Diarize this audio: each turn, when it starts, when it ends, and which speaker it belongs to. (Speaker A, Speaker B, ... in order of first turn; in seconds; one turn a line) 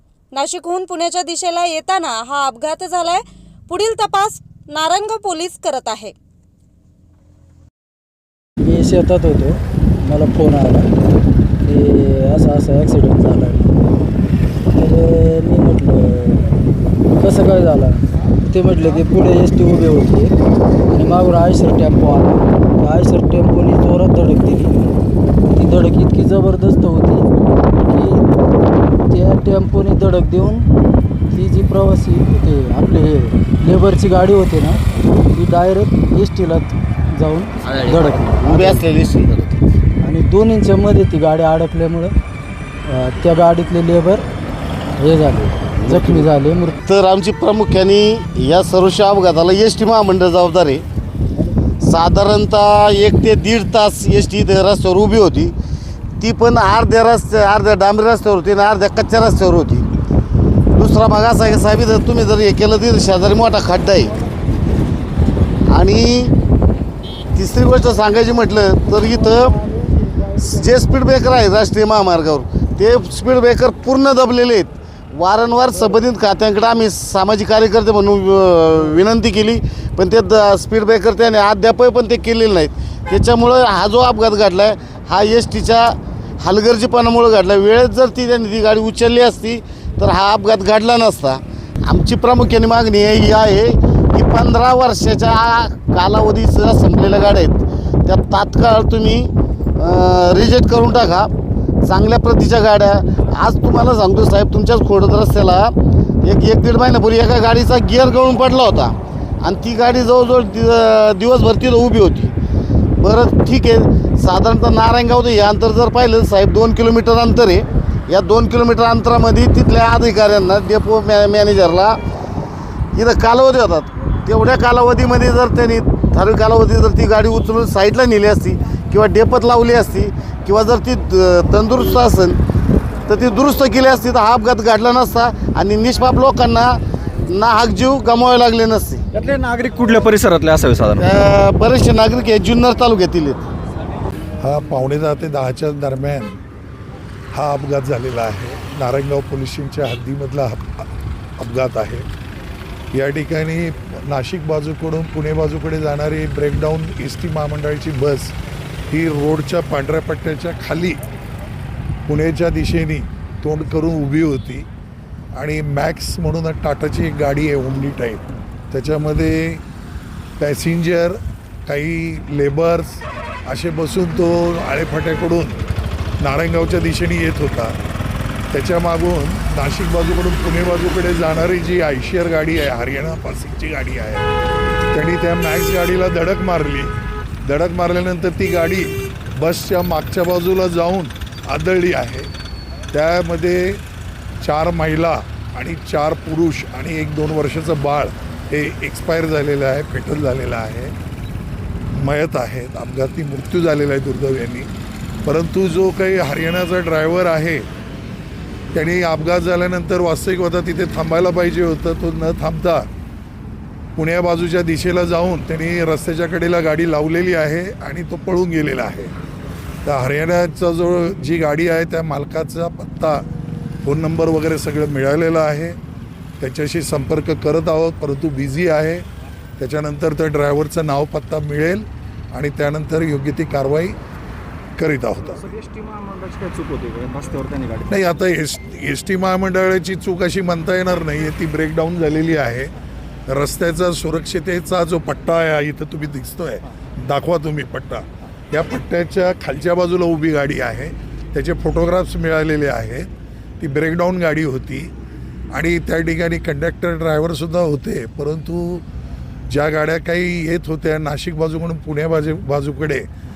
Speaker A: 0.3-6.1
Speaker B: 8.6-10.9
Speaker B: 11.6-13.8
Speaker B: 14.7-16.6
Speaker B: 17.1-20.3
Speaker B: 20.9-24.8
Speaker B: 25.5-27.3
Speaker B: 27.8-28.4
Speaker B: 29.0-30.7
Speaker B: 31.3-38.8
Speaker C: 38.4-39.6
Speaker B: 40.0-42.1
Speaker B: 42.9-44.2
Speaker B: 45.0-46.8
Speaker C: 45.9-46.2
Speaker C: 46.8-50.8
Speaker C: 51.8-55.5
Speaker C: 56.2-59.9
Speaker C: 60.7-64.2
Speaker C: 65.7-66.3
Speaker C: 67.3-69.6
Speaker C: 70.3-101.3
Speaker C: 101.8-112.3
Speaker C: 113.0-122.0
Speaker C: 122.9-132.4
Speaker C: 133.1-136.8
Speaker C: 137.3-139.0
Speaker D: 139.1-141.0
Speaker C: 140.9-143.4
Speaker E: 144.4-146.4
Speaker E: 147.3-150.9
Speaker E: 151.4-152.1
Speaker E: 152.9-158.3
Speaker E: 158.9-161.0
Speaker E: 162.1-164.7
Speaker E: 165.3-169.6
Speaker E: 170.4-175.6
Speaker E: 176.2-177.7
Speaker E: 178.5-184.3
Speaker E: 184.9-186.9
Speaker E: 187.4-192.3
Speaker E: 192.9-193.8
Speaker E: 194.4-200.9
Speaker E: 201.9-204.7
Speaker E: 205.2-207.7
Speaker E: 208.7-212.9
Speaker E: 213.9-219.1
Speaker E: 219.8-223.2
Speaker E: 223.8-225.8
Speaker E: 226.4-229.1
Speaker E: 229.6-234.0
Speaker E: 234.8-235.5
Speaker D: 235.5-237.9
Speaker E: 237.9-242.7
Speaker E: 243.3-254.9
Speaker E: 255.5-258.9
Speaker E: 259.5-263.1